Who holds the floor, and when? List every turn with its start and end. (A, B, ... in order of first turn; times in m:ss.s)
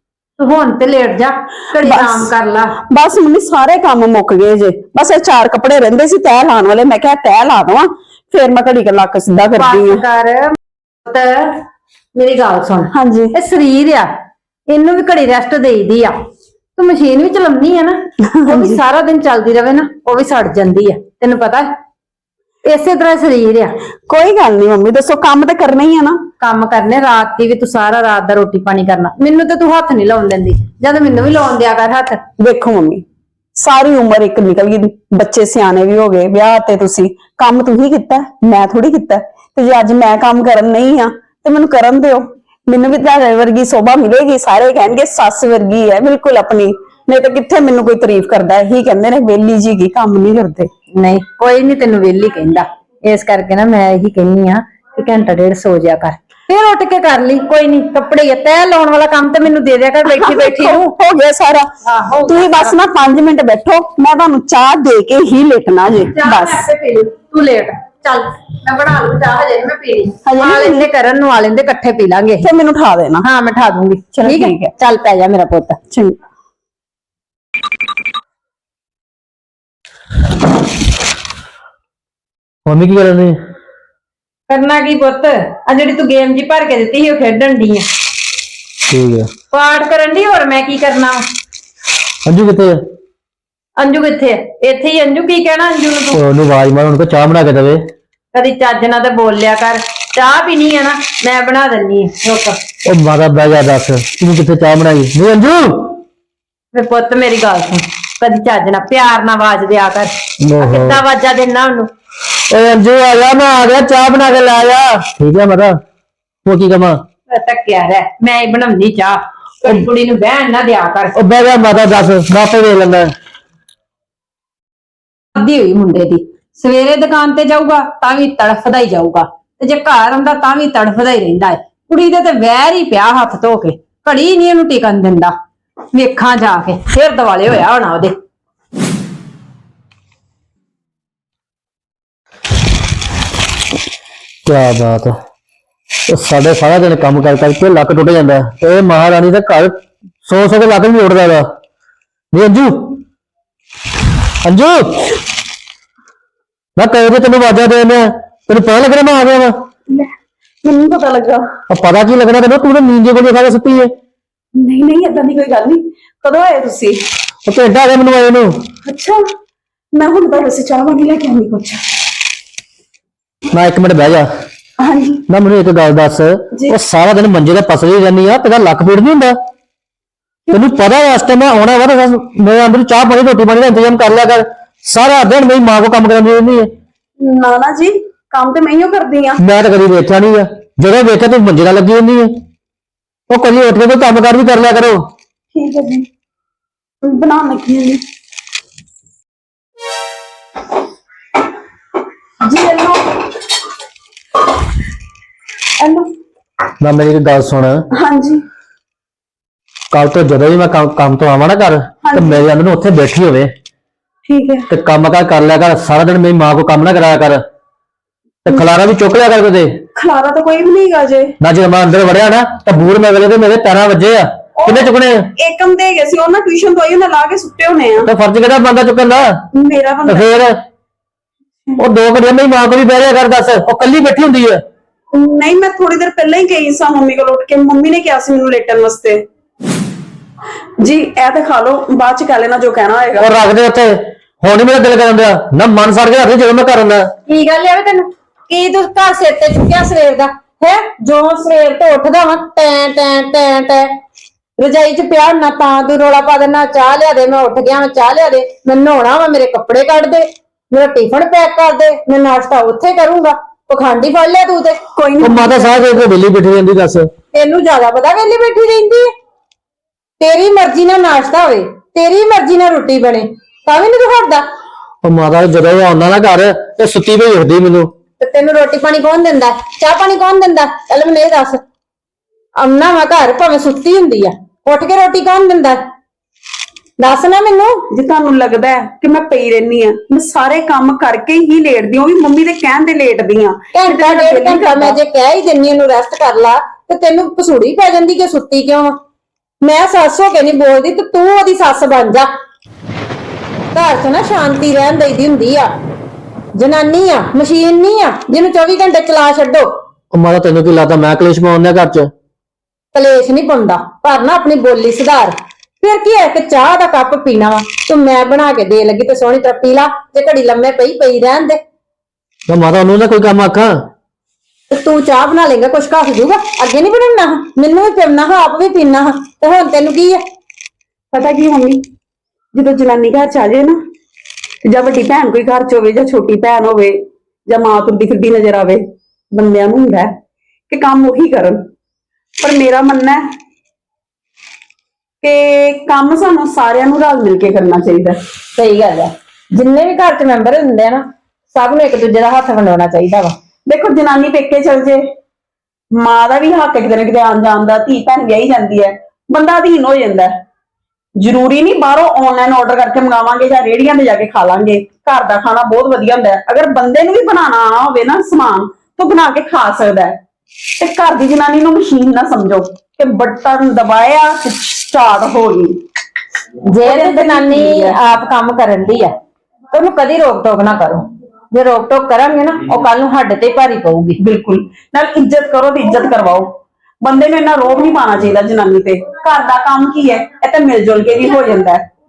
0:00.4-0:02.7 A
0:01.8-0:02.3 B
0:02.9-0:10.0 B
0:09.6-0:11.6 A
0:12.1-0:14.1 A
0:12.9-0:13.3 B
0:14.7-0:16.1 A
0:16.8-0:21.7 A
0:18.3-0:18.8 B
0:22.6-0:23.7 A
0:24.1-0:26.2 B
0:26.4-0:32.2 A
0:32.4-0:33.0 B
0:33.6-0:50.7 B
0:50.9-1:00.9 A
1:00.0-1:01.7 B
1:01.8-1:02.8 A
1:02.2-1:06.6 B
1:06.1-1:12.5 A
1:10.2-1:10.9 B
1:12.4-1:13.2 B
1:13.2-1:15.8 A
1:14.1-1:14.7 B
1:15.9-1:16.2 B
1:22.6-1:23.3 C
1:24.5-1:27.8 A
1:28.9-1:29.3 C
1:29.5-1:31.2 A
1:32.2-1:32.8 C
1:33.8-1:36.2 A
1:36.1-1:37.8 C
1:38.3-1:42.6 A
1:42.8-1:45.9 C
1:46.7-1:51.9 A
1:50.4-1:51.0 C
1:52.5-1:55.8 C
1:56.4-1:57.0 C
1:57.3-2:01.2 A
2:01.2-2:03.1 C
2:05.3-2:15.3 A
2:15.9-2:18.1 A
2:24.4-2:25.2 C
2:26.1-2:31.4 C
2:32.3-2:32.9 C
2:34.4-2:35.0 C
2:36.8-2:39.5 C
2:40.6-2:41.4 B
2:41.7-2:43.9 C
2:44.5-2:47.0 B
2:47.5-2:48.5 C
2:48.8-2:49.2 B
2:49.9-2:51.8 B
2:53.5-2:54.2 C
2:54.8-2:55.2 B
2:55.3-2:59.3 C
3:00.5-3:06.6 C
3:07.2-3:09.4 B
3:09.4-3:12.3 C
3:13.3-3:15.0 C
3:15.5-3:16.0 B
3:17.0-3:18.0 B
3:22.4-3:23.2 B
3:26.8-3:27.8 C
3:28.0-3:28.4 B
3:29.9-3:33.5 C
3:32.0-3:32.4 B
3:34.2-3:34.7 B
3:34.7-3:37.4 C
3:38.4-3:39.7 C
3:40.0-3:41.3 B
3:41.4-3:45.2 C
3:44.6-3:48.1 B
3:48.0-3:49.3 C
3:49.5-3:50.4 B
3:50.1-3:50.5 C
3:51.8-3:54.6 C
3:55.1-3:59.2 B
4:00.8-4:03.4 B
4:03.2-4:07.0 C
4:07.3-4:13.9 A
4:14.6-4:24.8 A
4:24.9-4:25.8 B
4:25.2-4:27.1 C
4:27.3-4:29.1 A
4:30.2-4:34.4 A
4:35.0-4:37.9 C
4:38.2-4:41.6 A
4:42.6-4:45.8 A
4:47.0-4:47.8 A
4:47.9-4:55.0 B
4:53.7-4:58.9 A
4:59.6-5:02.3 A
5:03.7-5:05.7 A
5:06.6-5:09.7 A
5:10.1-5:12.1 C
5:12.9-5:21.6 A
5:22.5-5:23.7 C
5:24.7-5:30.2 A
5:31.1-5:31.8 B
5:32.5-5:33.7 B
5:34.6-5:40.1 B
5:40.7-5:41.6 B
5:42.4-5:43.2 B
5:45.2-5:48.2 B
5:48.6-5:53.3 A
5:53.7-5:55.0 B
5:55.9-6:00.3 B
6:01.2-6:10.1 B
6:10.8-6:15.8 B
6:16.7-6:19.1 A
6:16.8-6:18.0 B
6:19.7-6:24.2 A
6:24.2-6:26.5 B
6:27.0-6:31.8 B